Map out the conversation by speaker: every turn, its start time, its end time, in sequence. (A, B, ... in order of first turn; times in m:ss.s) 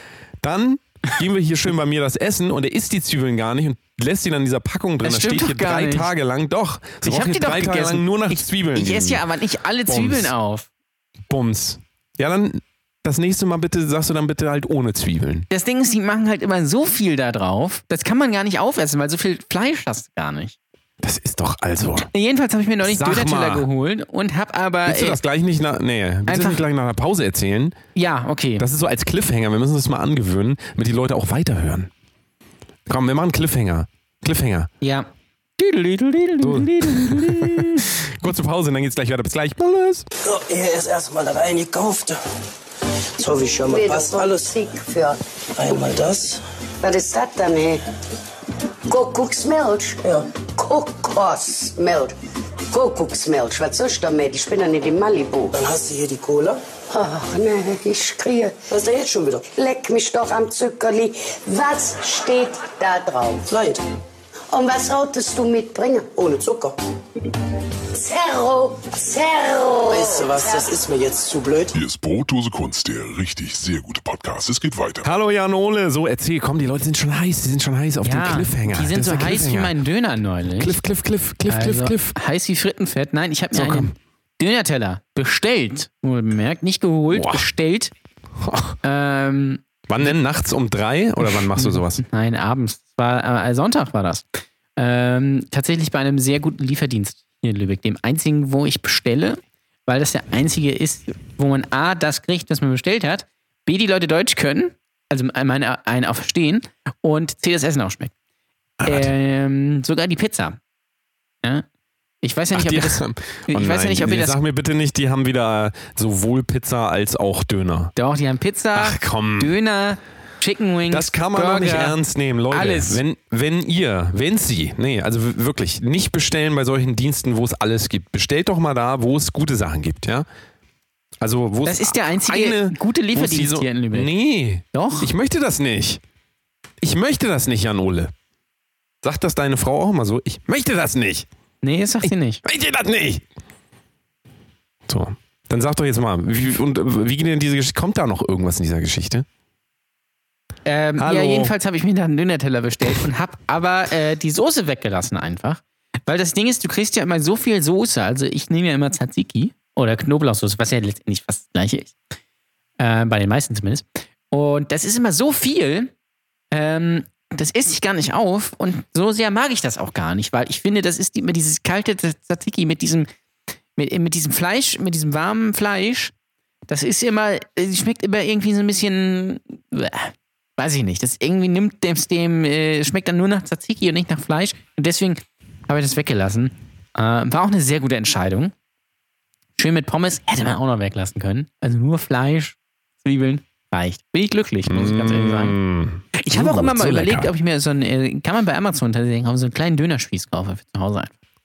0:00.4-0:09.2 A
0:05.0-0:06.1 B
0:07.0-0:10.7 B
0:09.9-0:10.3 A
0:11.3-0:15.5 A
0:15.5-0:20.6 B
0:21.0-0:22.1 A
0:22.0-0:25.2 B
0:22.8-0:23.7 A
0:24.9-0:27.8 A
0:26.3-0:26.6 B
0:27.9-0:28.6 B
0:28.6-0:31.9 A
0:32.9-0:34.7 A
0:34.8-0:37.9 B
0:36.4-0:40.0 A
0:40.2-0:42.2 C
0:43.2-0:44.5 C
0:43.6-0:45.2 D
0:45.5-0:46.4 C
0:46.8-0:47.8 D
0:48.9-0:52.1 D
0:52.7-0:55.6 D
0:55.5-0:56.6 C
0:56.9-1:03.6 D
0:58.9-0:59.4 C
1:03.5-1:03.8 C
1:04.5-1:06.5 D
1:06.4-1:06.7 C
1:07.9-1:10.7 D
1:09.9-1:11.8 C
1:11.7-1:15.1 E
1:15.0-1:19.7 A
1:18.0-1:20.8 B
1:20.6-1:22.2 A
1:21.5-1:27.9 B
1:23.5-1:23.9 A
1:27.1-1:27.5 A
1:28.4-1:28.8 A
1:28.8-1:29.6 B
1:29.9-1:32.0 A
1:31.5-1:48.1 B
1:48.8-1:49.1 A
1:48.8-1:50.6 B
1:52.2-1:54.4 B
1:52.5-1:57.9 A
1:58.0-2:02.0 B
1:58.7-1:59.5 A
2:00.9-2:10.3 A
2:02.5-2:03.0 B
2:11.2-2:16.0 A
2:11.6-2:14.1 B
2:14.7-2:15.1 B
2:16.8-2:18.1 A
2:19.0-2:21.3 A
2:21.6-2:22.4 B
2:22.0-2:23.2 A
2:24.9-2:29.2 A
2:30.6-2:41.9 B
2:31.0-2:31.5 A
2:42.8-2:45.9 B
2:46.5-2:53.1 B
2:53.8-2:56.1 B
2:56.7-3:08.5 B
3:09.6-3:15.6 B
3:14.7-3:17.3 A
3:16.2-3:21.1 B